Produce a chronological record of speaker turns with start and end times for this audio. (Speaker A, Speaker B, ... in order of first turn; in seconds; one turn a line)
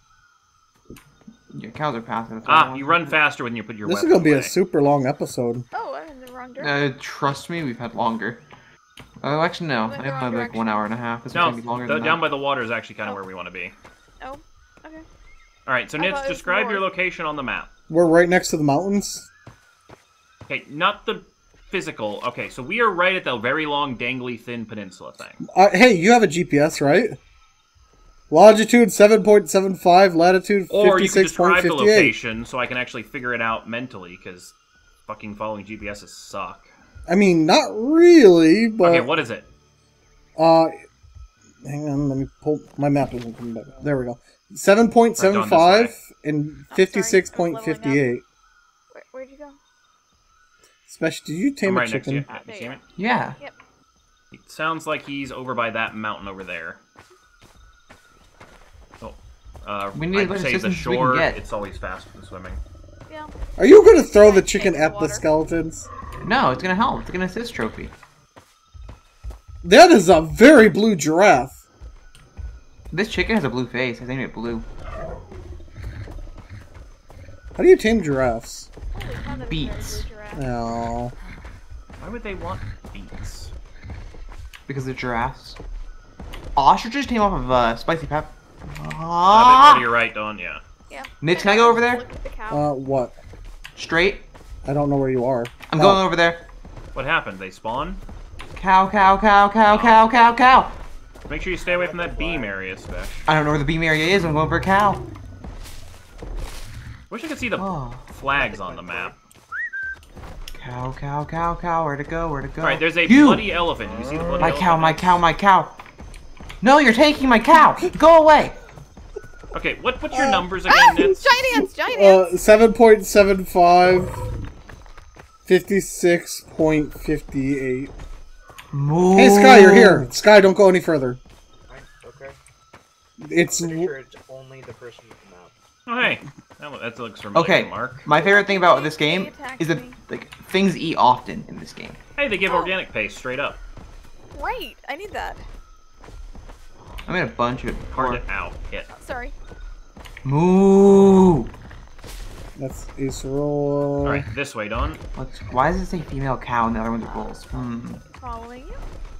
Speaker A: 1.5-3.1
Speaker B: 2.4-4.5
Speaker C: 3.8-5.7
Speaker D: 5.7-6.9
Speaker A: 6.6-8.4
Speaker A: 9.2-12.3
Speaker D: 9.9-10.7
Speaker B: 11.3-13.7
Speaker D: 14.2-15.0
Speaker B: 15.7-17.7
Speaker D: 16.0-16.9
Speaker C: 17.9-19.3
Speaker B: 20.5-25.4
Speaker C: 25.4-27.1
Speaker C: 28.3-32.1
Speaker B: 30.7-34.5
Speaker B: 35.1-36.7
Speaker C: 37.1-39.1
Speaker B: 38.8-39.5
Speaker C: 40.4-40.7
Speaker C: 41.6-48.2
Speaker B: 45.2-45.9
Speaker D: 46.7-48.0
Speaker D: 48.9-49.6
Speaker C: 50.9-52.2
Speaker B: 51.6-52.8
Speaker D: 52.3-52.8
Speaker A: 53.0-53.4
Speaker B: 54.3-56.8
Speaker B: 59.0-62.6
Speaker A: 59.9-61.4
Speaker C: 63.6-65.9
Speaker D: 63.9-65.3
Speaker A: 66.2-67.9
Speaker C: 69.6-71.5
Speaker A: 72.9-74.7
Speaker C: 77.5-78.7
Speaker D: 78.9-80.4
Speaker A: 79.3-80.0
Speaker C: 80.3-81.1
Speaker B: 82.0-83.5
Speaker A: 84.7-85.6
Speaker A: 86.5-89.9
Speaker B: 89.3-90.6
Speaker D: 90.9-92.7
Speaker A: 91.2-92.0
Speaker C: 92.5-93.1
Speaker A: 93.8-94.2
Speaker C: 94.6-96.0
Speaker A: 95.7-96.4
Speaker B: 96.9-98.0
Speaker A: 98.5-100.8
Speaker B: 99.6-100.0
Speaker B: 101.3-103.2
Speaker E: 101.6-102.5
Speaker A: 103.3-105.0
Speaker B: 107.1-109.1
Speaker A: 107.6-108.1
Speaker E: 108.3-109.2
Speaker A: 110.5-113.4
Speaker B: 112.6-115.2
Speaker A: 114.4-115.8
Speaker A: 116.6-118.6
Speaker B: 119.5-121.3
Speaker C: 120.1-124.2
Speaker D: 120.7-122.3
Speaker C: 125.5-127.9
Speaker A: 128.7-130.1
Speaker C: 129.1-131.2
Speaker E: 131.7-132.4
Speaker C: 133.2-133.9
Speaker E: 133.5-135.5
Speaker B: 135.8-138.1
Speaker A: 137.3-142.0
Speaker D: 138.1-140.0
Speaker B: 142.2-143.6
Speaker D: 142.4-142.8
Speaker D: 144.3-145.4
Speaker A: 147.1-148.2
Speaker B: 147.9-148.9
Speaker D: 148.9-149.3
Speaker A: 150.2-151.5
Speaker C: 152.6-154.3
Speaker B: 154.0-155.0
Speaker A: 155.1-158.0
Speaker D: 158.1-158.8